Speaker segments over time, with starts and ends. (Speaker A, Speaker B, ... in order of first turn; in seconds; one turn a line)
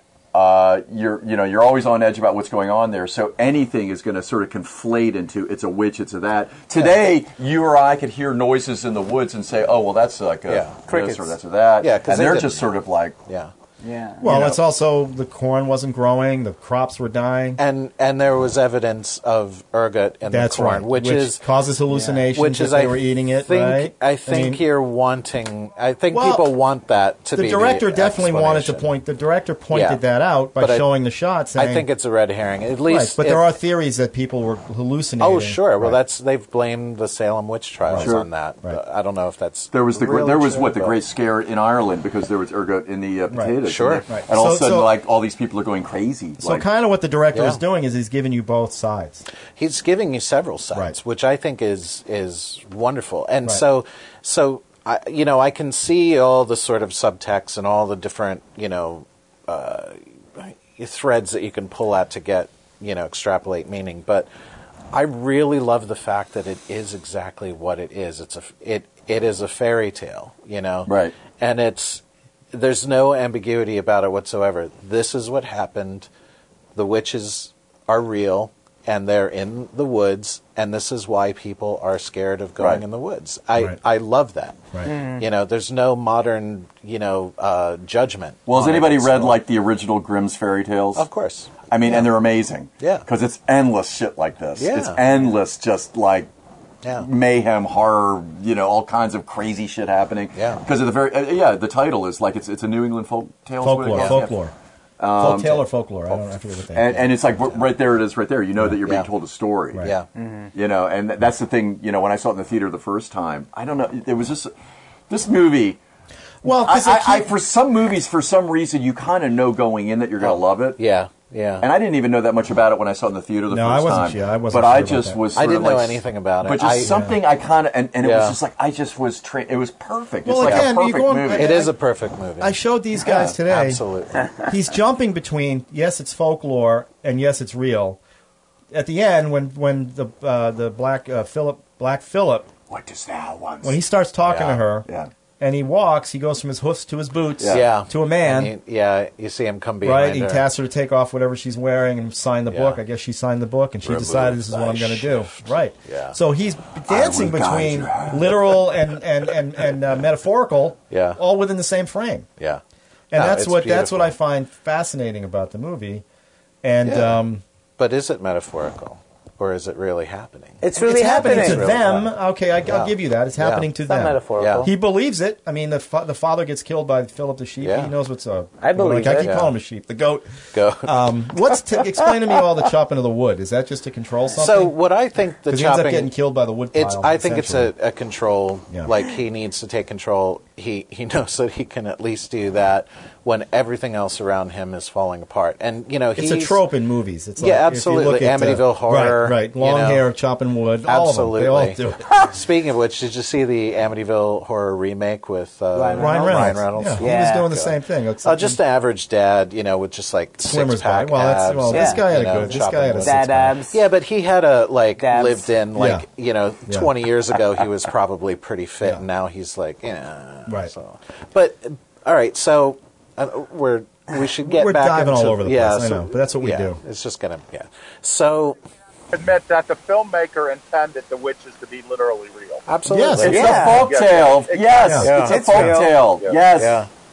Speaker A: 0.3-13.2
Speaker B: 10.5-11.2
Speaker B: 11.8-13.5
Speaker C: 13.8-14.2
Speaker D: 14.2-17.6
Speaker A: 14.2-14.6
Speaker B: 17.6-21.4
Speaker D: 20.3-24.6
Speaker C: 21.9-22.2
Speaker B: 22.3-28.9
Speaker D: 26.1-26.5
Speaker D: 27.3-31.9
Speaker B: 29.7-30.0
Speaker B: 30.6-30.9
Speaker B: 31.5-33.5
Speaker D: 32.9-36.0
Speaker B: 35.2-41.0
Speaker D: 37.9-38.8
Speaker A: 38.0-38.3
Speaker A: 39.7-46.6
Speaker B: 43.6-44.1
Speaker D: 44.1-44.9
Speaker D: 46.4-49.3
Speaker B: 47.3-47.6
Speaker B: 49.6-64.3
Speaker B: 64.9-72.0
Speaker A: 70.9-71.2
Speaker B: 72.5-76.1
Speaker B: 76.8-89.4
Speaker C: 84.8-85.2
Speaker A: 88.5-91.1
Speaker B: 91.0-92.1
Speaker A: 91.7-96.3
Speaker B: 92.8-93.0
Speaker B: 94.6-95.0
Speaker B: 96.8-97.1
Speaker A: 97.0-104.3
Speaker B: 100.3-100.6
Speaker D: 103.6-104.5
Speaker B: 103.9-104.3
Speaker A: 105.0-105.6
Speaker D: 105.2-107.0
Speaker A: 106.7-109.9
Speaker B: 108.8-109.1
Speaker B: 109.8-110.1
Speaker C: 110.2-110.5
Speaker A: 110.5-114.5
Speaker A: 115.1-115.8
Speaker D: 116.4-117.3
Speaker A: 116.5-120.8
Speaker B: 120.2-121.7
Speaker A: 121.6-131.6
Speaker D: 123.5-125.2
Speaker B: 125.3-127.1
Speaker D: 126.8-127.2
Speaker B: 128.0-128.4
Speaker D: 130.2-131.7
Speaker B: 130.4-130.7
Speaker B: 131.3-134.4
Speaker D: 132.4-133.8
Speaker D: 134.4-138.0
Speaker D: 138.7-142.5
Speaker A: 142.7-143.8
Speaker D: 143.6-144.9
Speaker B: 144.2-144.6
Speaker A: 144.8-145.1
Speaker D: 145.4-148.5
Speaker A: 147.4-147.7
Speaker B: 147.5-150.5
Speaker D: 149.8-162.3
Speaker B: 152.5-152.8
Speaker B: 153.9-156.2
Speaker A: 156.9-158.7
Speaker B: 160.9-161.2
Speaker D: 163.1-166.0
Speaker B: 163.1-164.2
Speaker D: 166.6-167.4
Speaker B: 166.8-167.2
Speaker B: 167.8-172.1
Speaker C: 170.6-171.7
Speaker D: 170.8-184.8
Speaker B: 172.7-173.7
Speaker C: 173.8-174.7
Speaker B: 174.4-174.7
Speaker B: 177.6-177.9
Speaker C: 178.6-179.3
Speaker B: 179.2-179.5
Speaker B: 180.5-181.8
Speaker B: 184.4-186.1
Speaker D: 185.5-187.7
Speaker B: 186.7-196.6
Speaker D: 196.2-202.2
Speaker B: 197.4-200.1
Speaker B: 200.9-228.6
Speaker C: 205.7-207.5
Speaker D: 206.0-208.6
Speaker D: 210.4-213.6
Speaker C: 211.7-212.1
Speaker C: 213.0-213.8
Speaker C: 215.0-215.5
Speaker D: 215.8-216.1
Speaker D: 220.5-220.7
Speaker D: 224.4-226.8
Speaker E: 229.1-232.6
Speaker B: 232.7-233.8
Speaker D: 232.9-233.5
Speaker A: 233.2-236.8
Speaker C: 233.3-233.9
Speaker E: 233.7-235.0
Speaker D: 234.8-235.8
Speaker B: 235.0-235.4
Speaker C: 235.1-236.0
Speaker B: 236.5-236.9